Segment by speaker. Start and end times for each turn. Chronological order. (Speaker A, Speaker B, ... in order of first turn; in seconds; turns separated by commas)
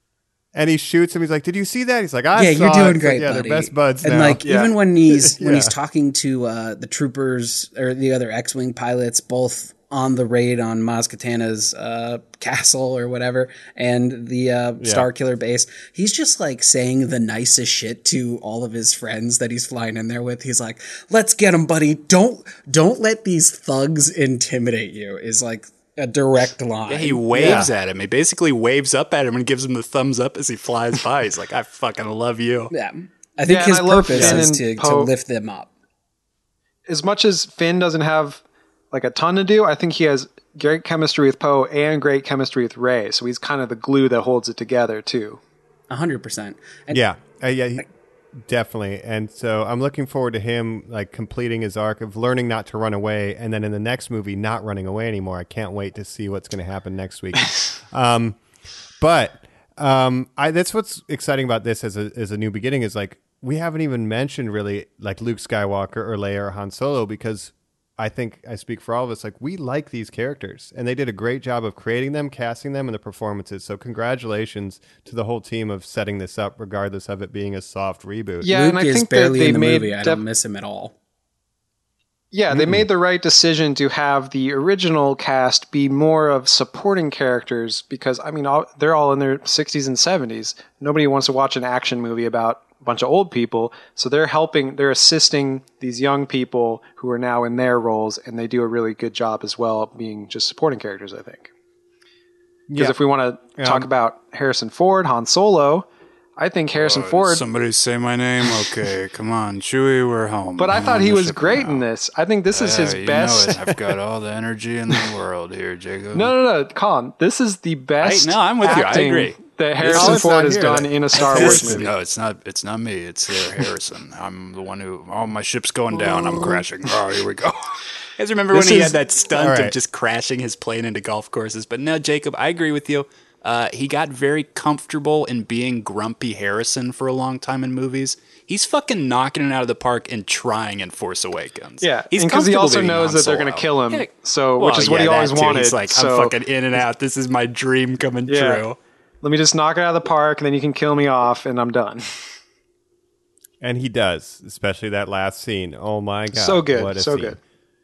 Speaker A: 0.5-4.4, Speaker B: 2.4-27.6, Speaker C: 4.4-4.8, Speaker A: 5.4-5.7, Speaker A: 14.8-15.1, Speaker D: 26.9-32.7, Speaker A: 27.4-27.7, Speaker B: 32.7-35.7, Speaker C: 33.5-35.1, Speaker D: 34.1-34.4, Speaker C: 36.9-45.4, Speaker B: 45.9-47.0, Speaker A: 46.9-58.4, Speaker A: 59.0-78.5, Speaker C: 78.4-80.2, Speaker B: 78.5-80.9, Speaker C: 82.3-101.5, Speaker A: 82.5-82.9, Speaker A: 102.7-103.0, Speaker C: 102.8-107.5, Speaker A: 103.6-103.9, Speaker D: 106.8-111.8, Speaker C: 110.6-113.9, Speaker D: 112.5-116.3, Speaker C: 116.1-121.9, Speaker D: 118.0-120.3, Speaker A: 119.8-121.9, Speaker D: 121.1-148.8, Speaker A: 128.5-129.8, Speaker C: 141.8-146.3, Speaker C: 148.3-148.7, Speaker C: 149.2-152.1, Speaker A: 153.6-157.4, Speaker C: 156.3-157.4